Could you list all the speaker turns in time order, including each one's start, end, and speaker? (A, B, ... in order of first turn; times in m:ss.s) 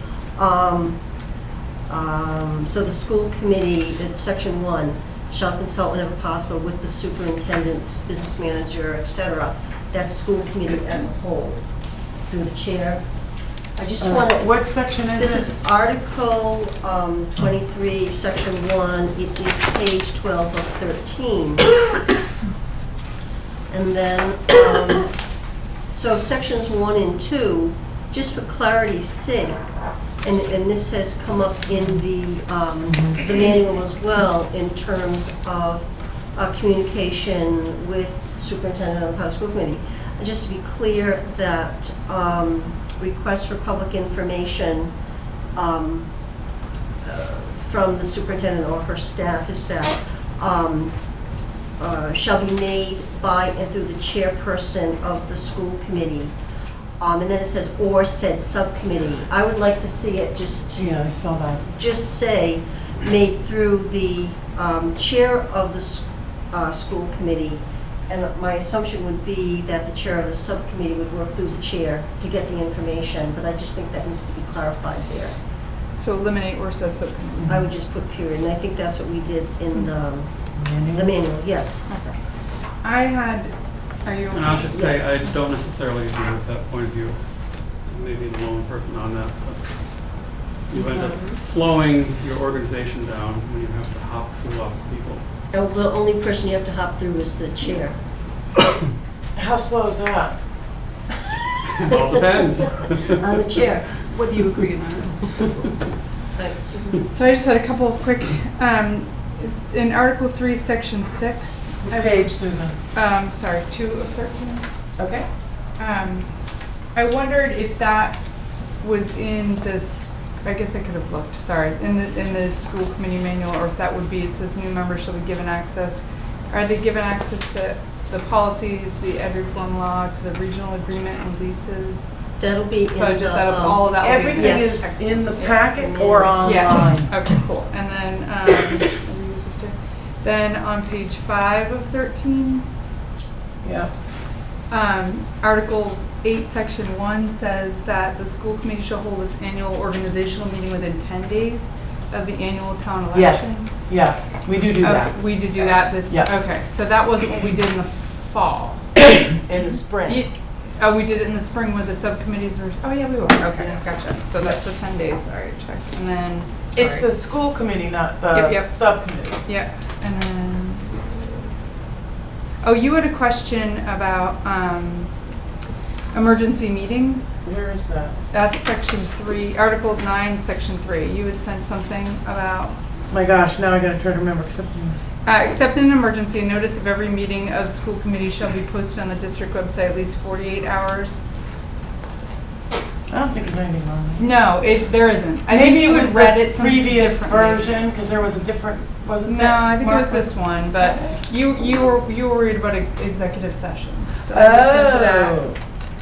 0:00.3-0:01.0 A
0:01.9-0:11.7 A
0:12.2-0:13.1 A
0:13.8-0:14.5 A
0:14.0-0:15.5 B
0:15.1-0:21.7 A
0:23.7-0:25.2 A
0:25.9-0:29.6 A
0:30.2-0:44.9 A
0:45.5-0:46.1 A
0:47.0-0:51.1 A
0:51.8-0:56.3 A
0:57.0-1:00.9 A
1:00.8-1:01.7 B
1:01.7-1:15.4 A
1:16.0-1:17.6 C
1:17.4-1:21.9 A
1:20.5-1:21.1 B
1:21.9-1:22.2 C
1:22.8-1:23.5 C
1:24.0-1:24.8 C
1:24.3-1:35.2 D
1:24.7-1:25.0 A
1:30.9-1:31.2 B
1:35.5-1:38.0 A
1:39.4-1:40.4 B
1:41.8-1:43.2 D
1:42.9-1:44.0 A
1:44.1-1:45.3 C
1:46.3-1:47.1 A
1:47.0-1:52.3 C
1:51.9-1:52.8 B
1:52.9-1:54.6 C
1:55.0-1:55.2 B
1:55.8-1:56.3 C
1:56.9-1:58.2 C
1:58.8-2:12.1 C
2:12.4-2:16.7 A
2:13.0-2:15.6 C
2:14.0-2:17.1 B
2:16.4-2:22.6 C
2:23.6-2:23.9 B
2:24.7-2:33.7 C
2:33.1-2:36.3 B
2:34.8-2:38.9 C
2:39.4-2:40.3 B
2:40.0-2:47.0 C
2:43.6-2:43.8 B
2:46.7-2:49.5 B
2:48.3-2:51.0 C
2:52.6-2:55.1 C
2:56.1-2:57.4 C
2:57.4-2:58.2 B
2:58.3-3:02.8 C
3:03.1-3:05.0 B
3:05.2-3:11.2 C
3:13.1-3:14.3 B
3:14.2-3:17.7 C
3:15.5-3:21.2 B
3:19.2-3:25.4 C
3:24.3-3:25.6 B